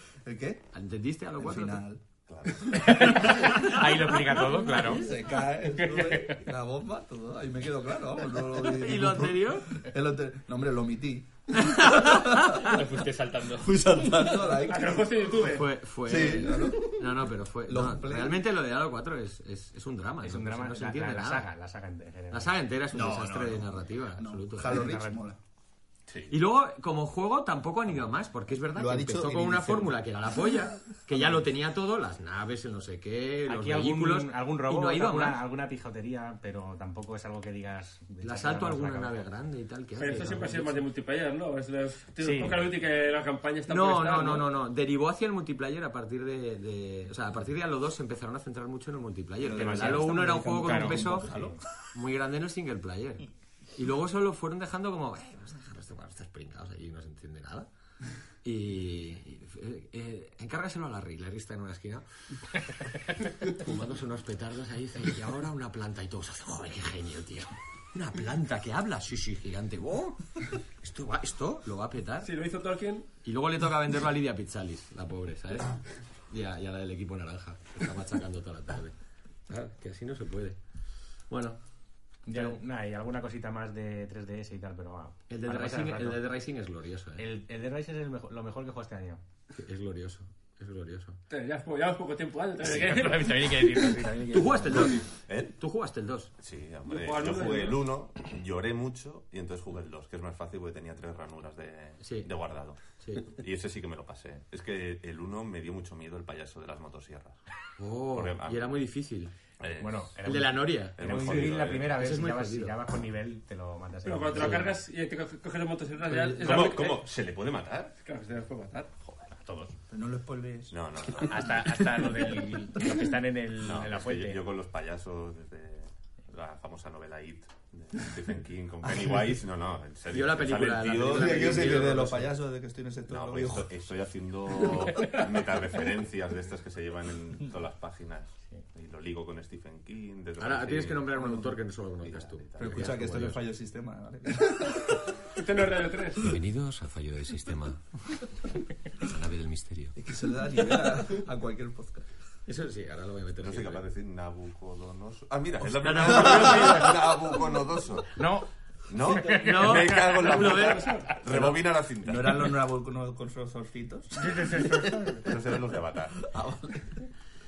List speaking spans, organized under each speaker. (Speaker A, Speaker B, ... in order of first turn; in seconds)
Speaker A: 0.2-0.6, 1.4-2.0, 4.8-12.6, 13.6-15.3, 16.0-17.1, 17.6-18.4, 24.2-25.4, 28.7-30.0, 49.4-51.6, 116.1-116.6, 119.9-120.7, 131.0-133.7, 141.2-141.6, 142.6-145.1, 149.9-152.1, 156.0-156.8, 162.0-164.5, 166.2-166.9
Speaker B: 0.7-1.8, 8.7-9.8, 11.5-12.6, 15.4-21.5, 22.3-24.9, 26.3-35.4, 38.2-40.8, 43.7-51.4, 51.9-57.7, 58.4-72.3, 73.2-78.9, 79.5-80.6, 81.3-81.6, 85.3-87.2, 89.5-91.2, 94.3-96.3, 102.0-102.3, 103.0-103.3, 107.8-109.3, 110.2-112.8, 114.3-114.6, 130.1-132.3, 140.4-143.4, 146.2-148.3, 148.9-149.9, 152.4-153.8, 155.7-157.2, 159.2-161.6
Speaker C: 2.3-3.0, 26.1-26.3, 49.6-49.9, 95.3-95.5, 96.4-107.4, 108.1-108.8, 109.6-110.3, 111.0-111.9, 116.4-117.9, 120.7-122.0, 123.6-132.2, 133.1-141.4, 142.0-143.1, 153.4-158.2, 158.9-162.4, 165.2-166.2
Speaker D: 2.7-5.1, 5.7-6.4, 20.2-22.5, 24.6-25.2, 33.5-39.2, 42.2-42.6, 50.5-51.5, 82.2-86.2, 87.2-89.2, 92.6-95.0, 109.8-114.7, 119.3-119.7, 121.2-124.4, 158.1-160.2, 164.3-165.0
Speaker E: 12.5-13.7, 22.9-23.6
Speaker F: 14.6-15.7, 40.0-44.5, 72.2-73.1, 91.3-93.8, 96.9-97.9, 114.0-117.0, 118.0-118.9, 145.4-146.2, 160.5-161.1